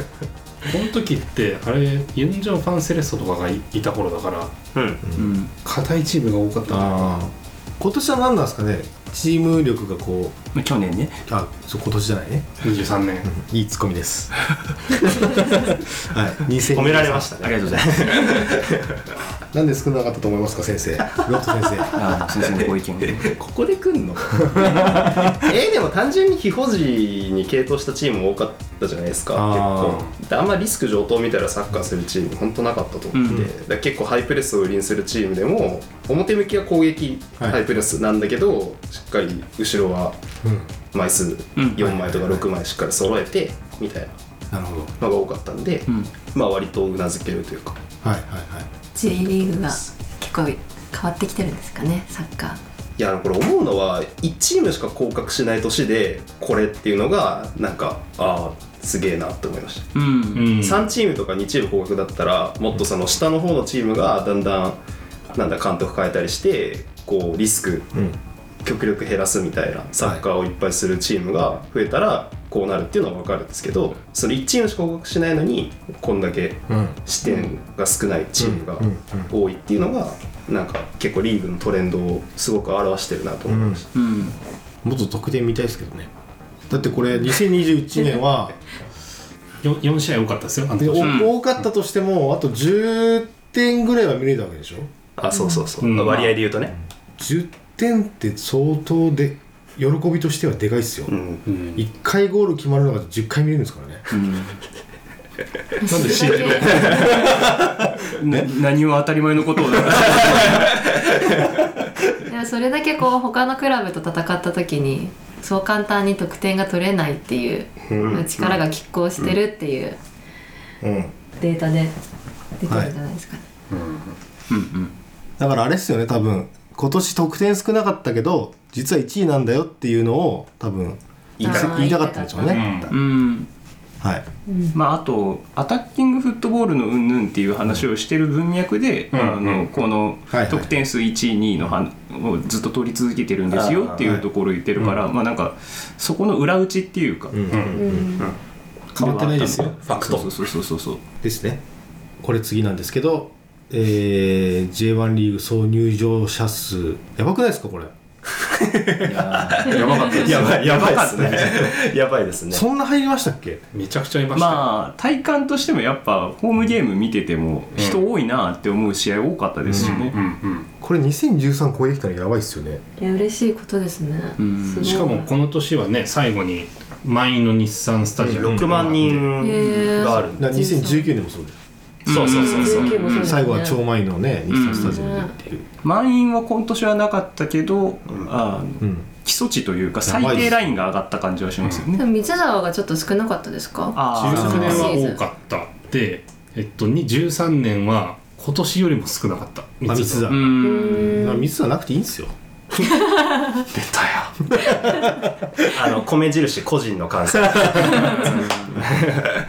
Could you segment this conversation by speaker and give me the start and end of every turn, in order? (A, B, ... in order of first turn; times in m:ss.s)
0:00.7-0:04.6 A
0:04.7-0:05.0 B
0:05.1-0:05.3 C
0:05.2-0:05.5 D
0:05.6-0:07.2 A
0:06.7-0:10.4 C
0:10.6-0:11.2 D
0:11.3-0:12.6 C
0:12.6-0:13.3 A
0:13.2-0:14.3 C
0:14.9-0:18.0 C
0:16.6-0:19.0 B
0:17.4-0:18.5 D
0:19.5-0:22.0 C
0:21.9-0:23.3 D
0:23.1-0:40.2 B
0:24.5-0:25.0 C
0:29.3-0:30.0 C
0:33.1-0:33.5 D
0:40.9-0:44.2 B
0:41.8-0:42.4 C
0:44.5-0:44.9 C
0:45.0-0:47.8 B
0:48.0-0:48.7 C
0:49.0-0:52.6 E
0:53.0-0:59.9 B
0:59.9-1:00.5 D
1:00.3-1:00.9 A
1:00.5-1:04.8 B
1:05.3-1:08.0 B
1:08.6-1:23.9 B
1:16.7-1:17.0 C
1:17.2-1:17.5 D
1:18.4-1:19.3 C
1:23.5-1:23.8 C
1:23.9-1:24.4 D
1:24.8-1:26.1 C
1:26.7-1:28.6 C
1:29.6-1:31.3 A
1:30.8-1:34.9 C
1:31.0-1:31.3 D
1:35.2-1:36.7 B
1:35.3-1:35.7 E
1:35.8-1:36.4 A
1:37.2-1:41.1 C
1:41.1-1:41.4 B
1:41.5-1:41.8 A
1:41.8-1:44.1 C
1:44.1-1:44.6 D
1:45.8-1:47.1 E
1:45.8-1:47.4 A
1:46.8-1:48.5 C
1:48.1-1:50.8 D
1:52.3-2:00.0 E
1:57.9-1:58.2 C
1:58.0-1:58.5 B
2:00.8-2:01.1 C
2:01.4-2:01.9 E
2:02.6-2:03.4 E
2:02.7-2:02.9 C
2:03.7-2:04.2 A
2:04.5-2:04.9 D
2:05.4-2:12.9 C
2:11.4-2:11.8 B
2:11.4-2:12.7 E
2:12.5-2:12.9 A
2:12.9-2:13.5 D
2:14.5-2:14.8 E
2:14.7-2:27.4 D
2:19.1-2:19.7 A
2:20.3-2:20.7 C
2:23.5-2:24.1 B
2:24.0-2:24.2 C
2:27.3-2:28.2 C
2:27.5-2:27.8 A
2:27.7-2:28.3 E
2:29.0-2:30.3 A
2:29.0-2:31.0 D
2:30.0-2:30.2 B
2:31.2-2:31.6 C
2:32.2-2:37.9 C
2:38.4-2:42.6 B
2:39.0-2:41.7 D
2:39.6-2:40.6 A
2:42.5-2:43.6 C
2:43.7-2:44.7 A
2:44.3-2:50.2 D
2:47.8-2:48.0 A
2:49.7-2:50.0 C
2:49.8-2:50.7 A
2:50.8-2:52.8 C
2:53.0-2:55.3 E
2:54.4-2:54.9 D
2:54.8-2:59.2 A
2:58.2-2:58.9 C
2:58.2-3:00.5 B
2:59.4-3:01.1 E
3:00.4-3:01.6 C
3:02.1-3:03.4 D
3:02.1-3:02.8 A
3:02.1-3:03.0 B
3:02.3-3:03.8 E
3:03.2-3:05.7 C
3:04.5-3:05.0 D
3:04.7-3:05.3 E
3:05.8-3:12.0 D
3:08.8-3:09.1 C
3:10.0-3:10.6 C
3:12.0-3:15.2 E
3:14.0-3:14.9 D
3:14.1-3:20.4 A
3:14.3-3:14.8 C
3:19.9-3:22.3 C
3:20.3-3:21.2 D
3:20.6-3:21.5 E
3:23.0-3:23.6 E
3:23.7-3:24.5 A
3:24.6-3:25.2 C
3:25.6-3:29.4 B
3:28.0-3:28.8 D